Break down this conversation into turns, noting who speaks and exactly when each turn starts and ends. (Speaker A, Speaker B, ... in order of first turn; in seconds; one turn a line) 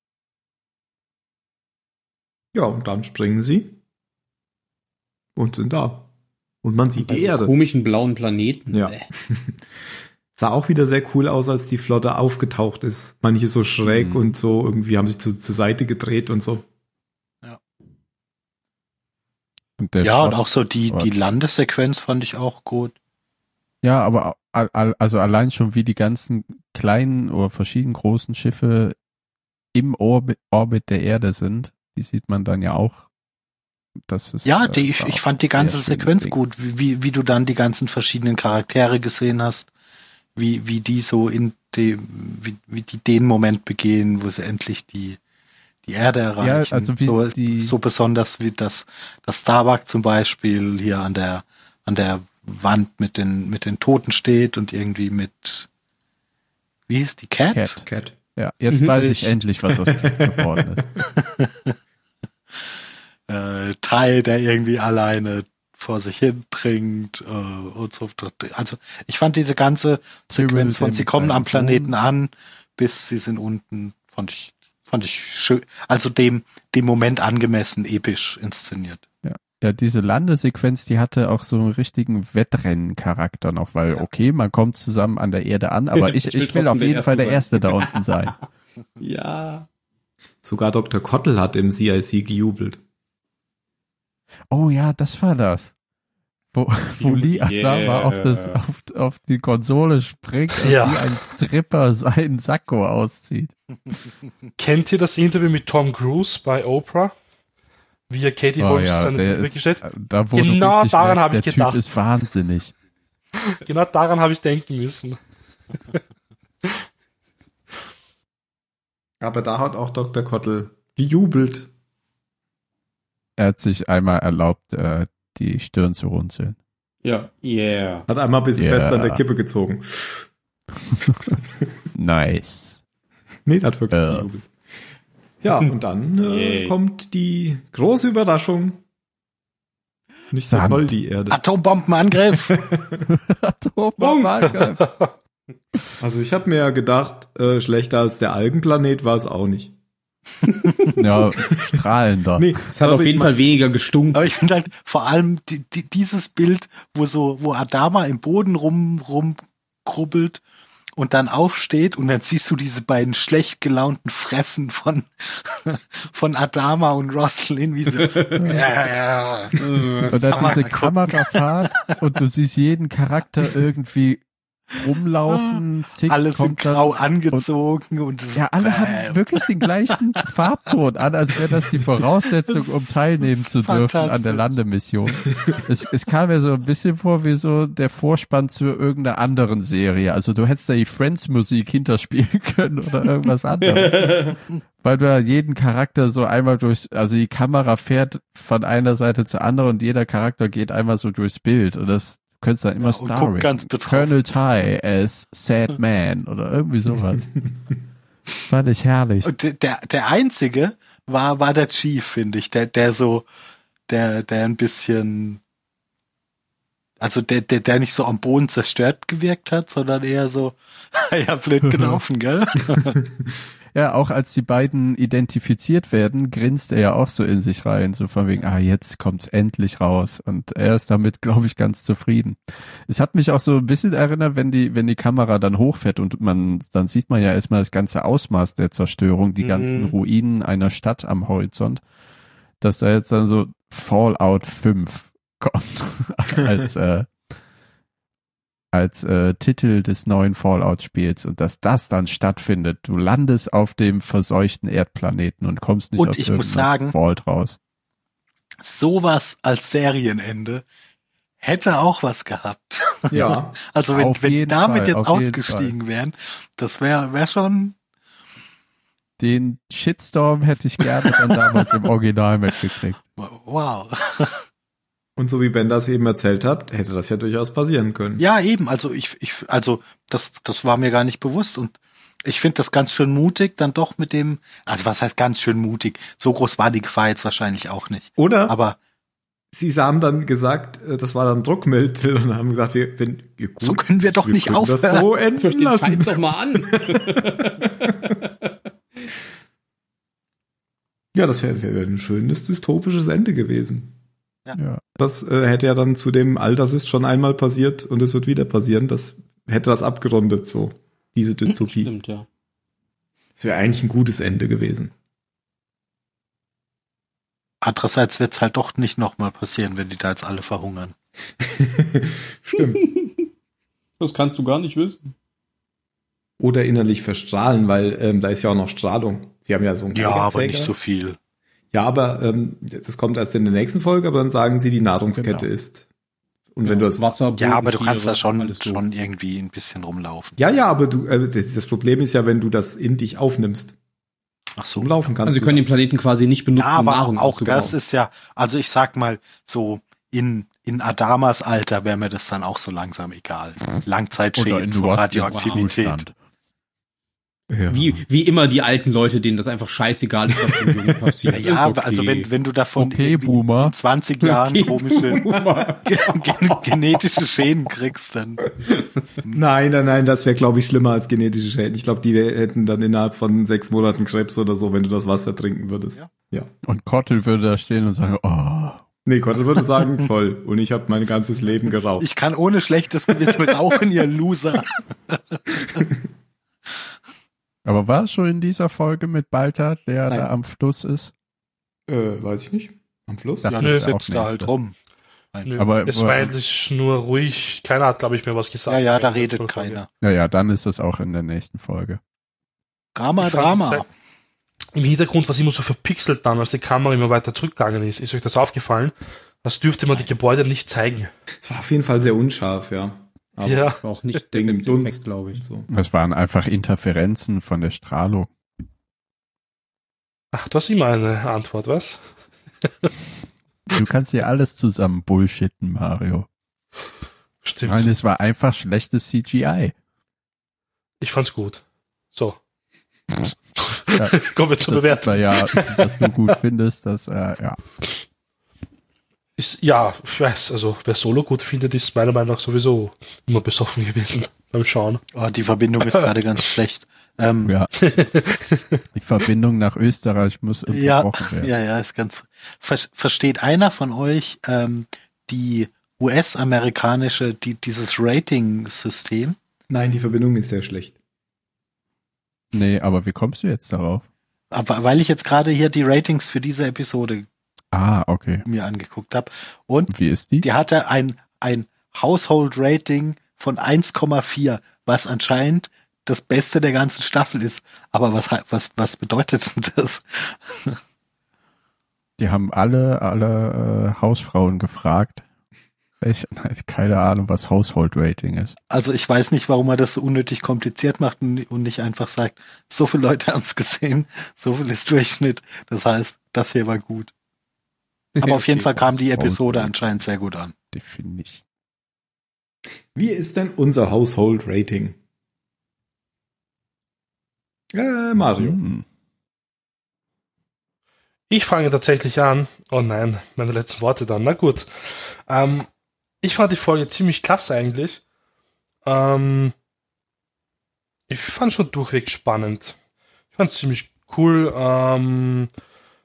Speaker A: 2.5-3.8
Speaker A: 5.3-6.1
Speaker A: 6.6-7.5
Speaker B: 7.0-9.1
Speaker A: 8.7-9.6
Speaker A: 10.3-16.6
Speaker C: 19.8-21.1
Speaker D: 20.0-22.9
Speaker C: 23.8-28.9
Speaker C: 29.7-33.0
Speaker C: 34.1-36.3
Speaker D: 34.4-39.7
Speaker D: 40.4-45.2
Speaker D: 45.9-55.7
Speaker C: 46.4-47.7
Speaker D: 56.9-57.8
Speaker C: 57.5-57.8
Speaker A: 57.8-58.1
Speaker C: 58.4-60.9
Speaker B: 58.7-59.3
Speaker A: 60.0-60.8
Speaker D: 61.2-61.7
Speaker D: 63.3-79.0
Speaker C: 70.3-71.9
Speaker C: 79.2-88.3
Speaker B: 85.9-88.3
Speaker B: 89.0-89.7
Speaker A: 90.4-92.8
Speaker C: 94.5-95.7
Speaker C: 96.5-103.5
Speaker B: 97.0-98.6
Speaker E: 100.5-101.1
Speaker E: 104.6-107.1
Speaker E: 108.1-109.8
Speaker C: 108.6-112.7
Speaker E: 110.3-112.0
Speaker E: 113.6-115.2
Speaker A: 119.2-121.7
Speaker C: 123.4-126.6
Speaker B: 127.0-128.1
Speaker A: 128.1-130.2
Speaker C: 128.6-129.2
Speaker C: 130.9-131.4
Speaker C: 131.9-132.8
Speaker A: 133.4-134.5
Speaker C: 133.9-134.3
Speaker A: 135.4-138.8
Speaker B: 136.2-136.8
Speaker A: 140.3-141.4
Speaker C: 140.5-140.8
Speaker D: 141.3-142.6
Speaker A: 142.7-143.0
Speaker C: 143.1-144.9
Speaker B: 144.0-144.5
Speaker E: 144.6-144.9
Speaker A: 146.0-149.7
Speaker C: 150.9-152.6
Speaker A: 152.3-153.3
Speaker B: 152.7-154.2
Speaker D: 154.1-160.4
Speaker D: 160.9-169.6
Speaker B: 168.0-168.5
Speaker B: 169.6-170.5
Speaker C: 170.1-174.2
Speaker D: 170.3-171.9
Speaker C: 174.7-177.4
Speaker D: 175.3-179.5
Speaker C: 178.3-207.4
Speaker D: 182.4-184.5
Speaker B: 193.6-194.4
Speaker D: 202.8-204.2
Speaker C: 208.5-209.3
Speaker D: 209.2-213.3
Speaker D: 213.9-215.4
Speaker D: 217.0-223.0
Speaker C: 221.6-222.0
Speaker C: 223.7-241.8
Speaker B: 239.4-239.9
Speaker C: 242.6-247.1
Speaker C: 248.7-257.6
Speaker D: 256.0-256.9
Speaker D: 258.6-260.6
Speaker D: 261.4-267.8
Speaker A: 263.1-263.6
Speaker C: 263.9-265.7
Speaker C: 269.2-273.0
Speaker D: 271.0-271.3
Speaker D: 273.2-274.4
Speaker A: 275.2-278.2
Speaker D: 278.2-288.8
Speaker A: 288.2-288.6
Speaker A: 289.5-298.1
Speaker D: 293.6-295.1
Speaker B: 295.4-298.1
Speaker A: 301.1-303.9
Speaker C: 304.6-304.8
Speaker A: 305.0-311.9
Speaker B: 311.5-312.3
Speaker A: 313.4-314.9
Speaker D: 317.6-320.9
Speaker A: 321.4-322.8
Speaker B: 322.8-323.1
Speaker B: 324.0-325.1
Speaker A: 326.4-330.7
Speaker D: 329.9-331.2
Speaker A: 331.7-335.8
Speaker C: 335.1-335.4
Speaker A: 336.5-337.0
Speaker B: 336.6-338.8
Speaker D: 337.4-340.4
Speaker A: 340.4-343.7
Speaker D: 344.6-344.9
Speaker A: 344.8-345.6
Speaker B: 345.2-347.7
Speaker D: 346.6-356.0
Speaker C: 354.3-356.1
Speaker B: 355.3-355.7
Speaker A: 357.5-358.0
Speaker B: 357.7-362.3
Speaker D: 361.3-365.3
Speaker C: 362.8-363.7
Speaker B: 364.2-367.0
Speaker D: 365.9-368.4
Speaker A: 369.3-376.5
Speaker C: 376.6-378.8
Speaker A: 379.0-382.1
Speaker D: 382.0-385.8
Speaker C: 387.6-391.1
Speaker A: 391.9-393.5
Speaker C: 393.4-394.5
Speaker D: 393.5-394.7
Speaker E: 393.6-393.9
Speaker D: 395.3-395.6
Speaker E: 395.4-399.8
Speaker C: 395.6-396.3
Speaker D: 398.7-399.9
Speaker C: 400.0-402.0
Speaker D: 402.9-403.9
Speaker E: 403.2-403.8
Speaker E: 404.7-411.1
Speaker A: 411.4-415.7
Speaker E: 413.4-413.8
Speaker B: 413.8-415.4
Speaker C: 415.7-418.3
Speaker E: 420.3-422.0
Speaker C: 423.7-426.3
Speaker E: 427.4-427.9
Speaker C: 427.6-429.7
Speaker E: 431.0-431.6
Speaker E: 432.1-432.4
Speaker E: 433.6-436.1
Speaker C: 433.9-437.6
Speaker E: 439.4-445.0
Speaker D: 445.1-447.5
Speaker E: 447.8-448.8
Speaker C: 448.9-451.5
Speaker D: 450.7-459.4
Speaker A: 459.7-460.9
Speaker C: 462.5-464.0
Speaker D: 464.5-467.3
Speaker C: 467.7-468.4
Speaker D: 468.4-469.9
Speaker C: 469.9-470.5
Speaker D: 470.4-480.8
Speaker C: 482.2-485.2
Speaker C: 486.0-488.6
Speaker D: 488.7-497.1
Speaker B: 498.2-498.7
Speaker D: 498.2-500.5
Speaker C: 498.7-499.9
Speaker C: 500.7-501.4
Speaker A: 502.9-505.0
Speaker A: 507.7-508.6
Speaker C: 508.2-508.8
Speaker E: 511.3-515.7
Speaker E: 516.2-518.0
Speaker E: 518.8-519.5
Speaker E: 521.1-522.8
Speaker E: 523.3-525.5